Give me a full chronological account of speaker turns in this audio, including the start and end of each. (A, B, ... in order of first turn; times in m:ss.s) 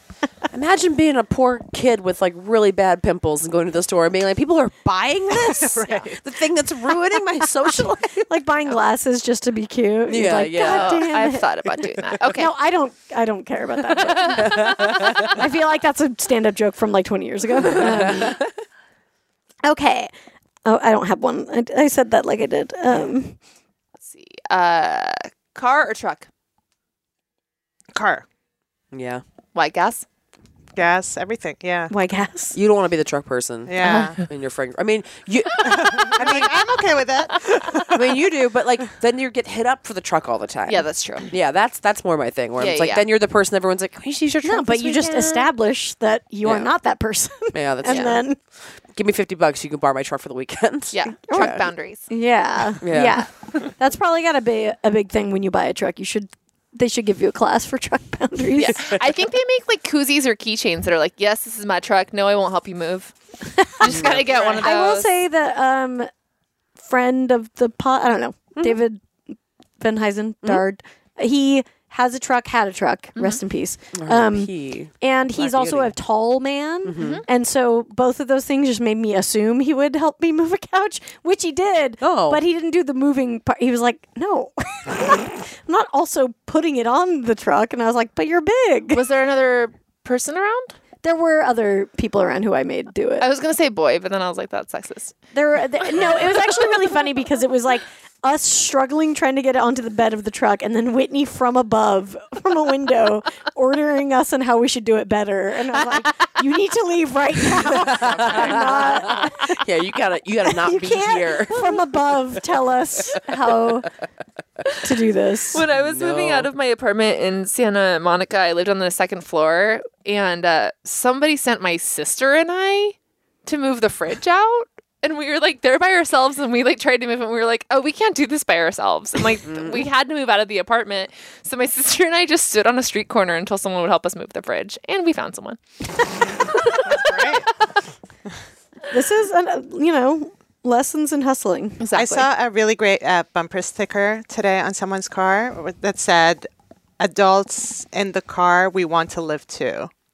0:00.5-0:08.3 A
0:05.3-0:06.2 B
0:07.4-0:11.5 C
0:10.1-0:11.0 A
0:10.5-0:12.5 D
0:12.3-0:18.4 C
0:14.1-0:14.6 D
0:14.3-0:15.4 A
0:17.6-0:18.4 A
0:19.6-0:20.1 C
0:20.6-0:23.4 C
0:24.0-0:26.3 D
0:27.9-0:28.2 B
0:28.9-0:29.2 A
0:29.5-0:30.0 D
0:30.8-0:31.9 B
0:31.9-0:32.6 C
0:32.5-0:36.5 A
0:33.6-0:34.2 B
0:33.8-0:34.1 D
0:35.6-0:38.3 B
0:35.7-0:36.5 D
0:37.9-0:45.0 A
0:40.7-0:41.3 D
0:42.6-0:43.1 D
0:44.4-0:48.4 C
0:44.9-0:45.5 D
0:46.4-0:46.7 A
0:47.5-0:48.2 A
0:47.8-0:48.2 D
0:48.9-0:51.6 A
0:50.9-0:52.1 D
0:51.3-0:58.8 C
0:52.8-0:53.2 A
0:58.6-1:03.1 D
1:03.5-1:04.0 C
1:03.8-1:05.1 D
1:03.8-1:04.5 A
1:04.5-1:06.1 C
1:06.8-1:09.0 C
1:09.8-1:29.0 C
1:13.9-1:15.9 A
1:16.8-1:17.2 A
1:17.0-1:17.2 D
1:22.0-1:22.4 A
1:28.9-1:30.8 D
1:31.0-1:33.3 C
1:33.2-1:35.2 D
1:35.3-1:49.6 C
1:47.7-1:51.8 A
1:50.4-1:53.9 C
1:54.8-1:55.6 C
1:55.5-2:15.6 D
1:55.7-1:56.5 A
2:09.4-2:09.8 A
2:16.6-2:17.3 D
2:16.8-2:17.5 B
2:18.9-2:21.8 C
2:21.8-2:22.3 D
2:21.9-2:26.5 B
2:27.0-2:29.9 B